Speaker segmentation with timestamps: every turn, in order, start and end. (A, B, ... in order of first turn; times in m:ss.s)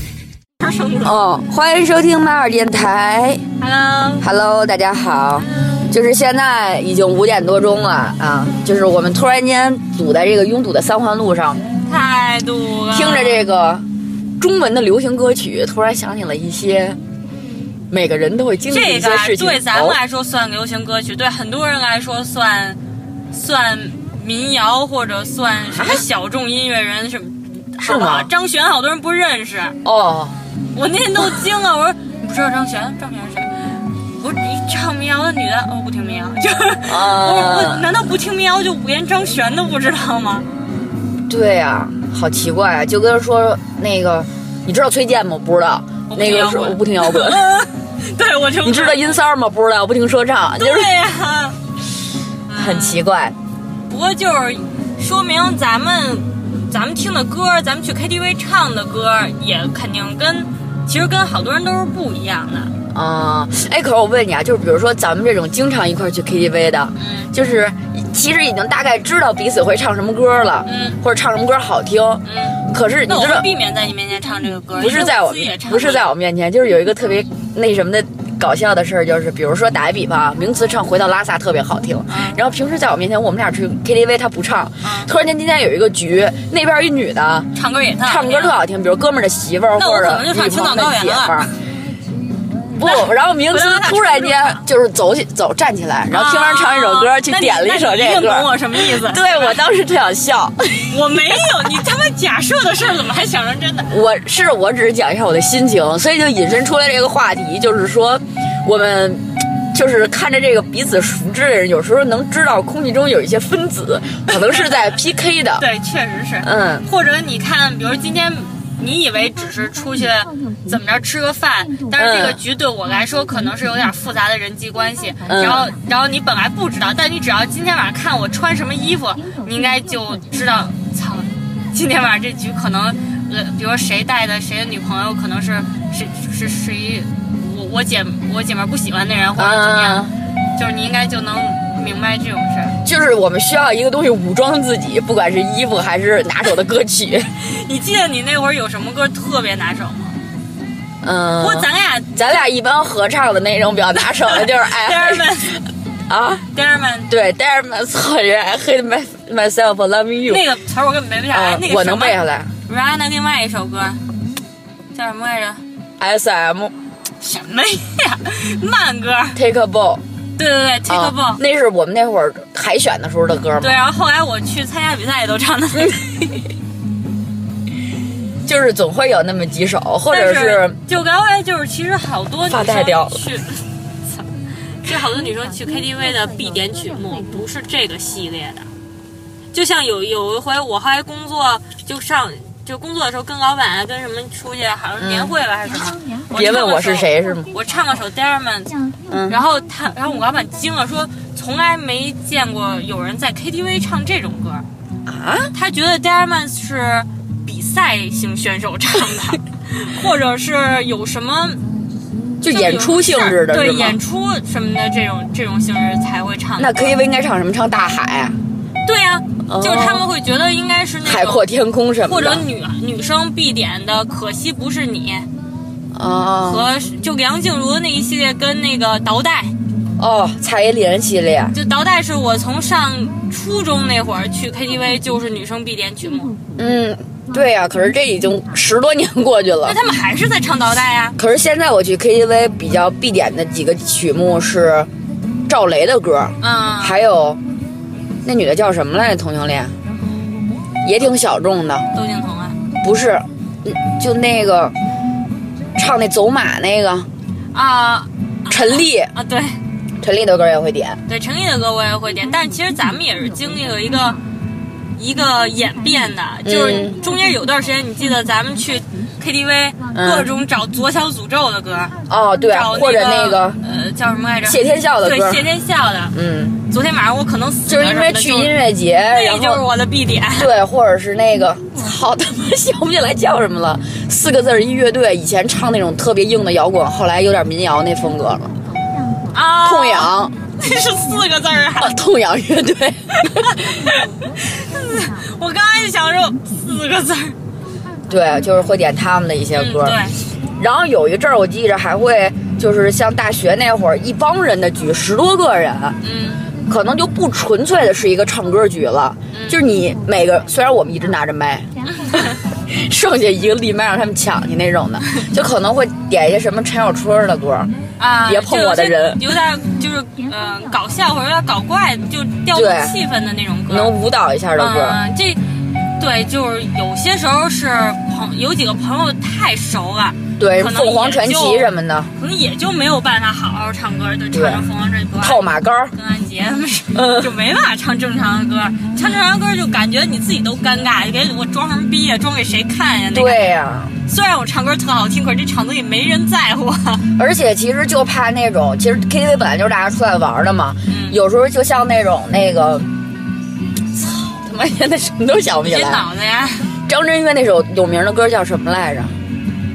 0:00.6-0:01.2 A
0:01.0-0:03.4 B
0:03.6-0:04.3 A
0:04.2-0:11.6 B
0:11.9-0:13.4 A
0:12.9-0:13.8 B
0:14.4-0:17.0 B
0:17.9-0:20.0 B
0:18.7-0:22.8 A
0:23.3-0:29.8 A
0:25.8-0:26.0 B
0:27.8-0:28.3 B
0:29.8-0:30.4 B
0:30.7-0:40.5 A
0:36.8-0:37.9 B
0:41.3-0:47.5 B
0:46.1-0:49.2 A
0:48.6-0:50.9 B
0:50.6-0:51.6 A
0:52.5-0:53.0 A
0:52.6-0:53.4 B
0:53.9-1:02.7 A
1:02.9-1:13.5 B
1:07.0-1:07.3 A
1:10.6-1:11.0 A
1:12.2-1:16.1 A
1:14.8-1:27.5 B
1:22.1-1:22.4 A
1:24.8-1:25.1 A
1:27.6-1:28.6 A
1:28.0-1:31.5 B
1:29.8-1:31.5 A
1:32.8-1:41.0 B
1:32.8-1:34.6 A
1:36.1-1:39.6 A
1:40.9-1:44.0 A
1:43.9-1:55.7 B
1:54.3-1:54.9 A
1:55.6-2:22.8 A
1:56.4-1:56.9 B
2:01.9-2:02.4 B
2:05.2-2:05.7 B
2:19.4-2:20.1 B
2:22.8-2:27.3 B
2:27.4-2:30.2 A
2:31.0-2:35.5 B
2:31.4-2:32.4 A
2:34.3-2:35.6 A
2:36.1-2:36.4 B
2:36.5-2:37.1 A
2:37.1-2:40.4 B
2:40.3-2:44.0 A
2:41.3-2:42.5 B
2:44.9-2:45.6 A
2:46.0-2:46.7 B
2:47.2-2:49.4 A
2:49.4-2:50.0 B
2:50.4-2:51.4 A
2:50.9-2:53.8 B
2:53.6-2:56.2 A
2:58.5-3:00.8 B
3:00.1-3:03.6 A
3:02.5-3:03.2 B
3:04.8-3:08.7 A
3:09.5-3:24.7 A
3:15.0-3:15.3 B
3:16.3-3:17.5 B
3:19.1-3:19.4 B
3:25.1-3:25.5 B
3:25.5-3:31.6 A
3:32.4-3:34.0 B
3:32.4-3:37.0 A
3:36.6-3:38.4 B
3:38.8-3:41.5 A
3:39.5-3:40.1 B
3:41.0-3:42.4 B
3:42.0-3:45.3 A
3:45.9-3:46.7 B
3:46.4-3:49.5 A
3:50.0-3:51.5 B
3:51.5-3:56.4 A
3:56.6-3:59.8 B
3:59.6-4:01.2 A
4:01.2-4:04.9 B
4:05.5-4:07.4 B
4:06.4-4:07.0 A
4:08.2-4:09.7 B
4:10.8-4:11.9 B
4:11.9-4:12.6 A
4:12.8-4:14.7 B
4:15.8-4:17.1 B
4:17.5-4:19.6 A
4:18.5-4:19.1 B
4:20.0-4:21.0 B
4:21.1-4:24.2 A
4:25.0-4:32.0 A
4:26.4-4:27.0 B
4:29.9-4:30.3 B
4:32.1-4:33.6 B
4:32.5-4:36.1 A
4:34.4-4:35.4 B
4:36.1-4:36.6 B
4:36.7-4:38.5 A
4:37.7-4:39.6 B
4:39.1-4:40.5 A
4:40.4-4:48.5 B
4:49.3-4:52.0 A
4:49.6-4:50.4 B
4:51.8-4:53.6 B
4:53.2-4:57.4 A
4:58.1-5:00.0 B
4:59.5-5:00.2 A
5:00.6-5:06.0 B
5:06.0-5:06.4 A
5:06.7-5:17.7 B
5:09.3-5:09.6 A
5:18.0-5:23.9 A
5:18.2-5:19.3 B
5:22.5-5:23.0 B
5:23.7-5:25.0 B
5:24.6-5:25.4 A
5:26.0-5:35.4 A
5:30.4-5:32.1 B
5:34.3-5:34.6 B
5:35.2-5:35.9 B
5:35.9-5:43.4 A
5:36.9-5:37.3 B
5:43.1-5:44.0 B
5:44.1-5:47.0 A
5:47.2-5:52.9 B
5:50.9-5:51.2 A
5:53.9-5:56.0 B
5:55.6-5:56.7 A
5:56.9-5:59.2 B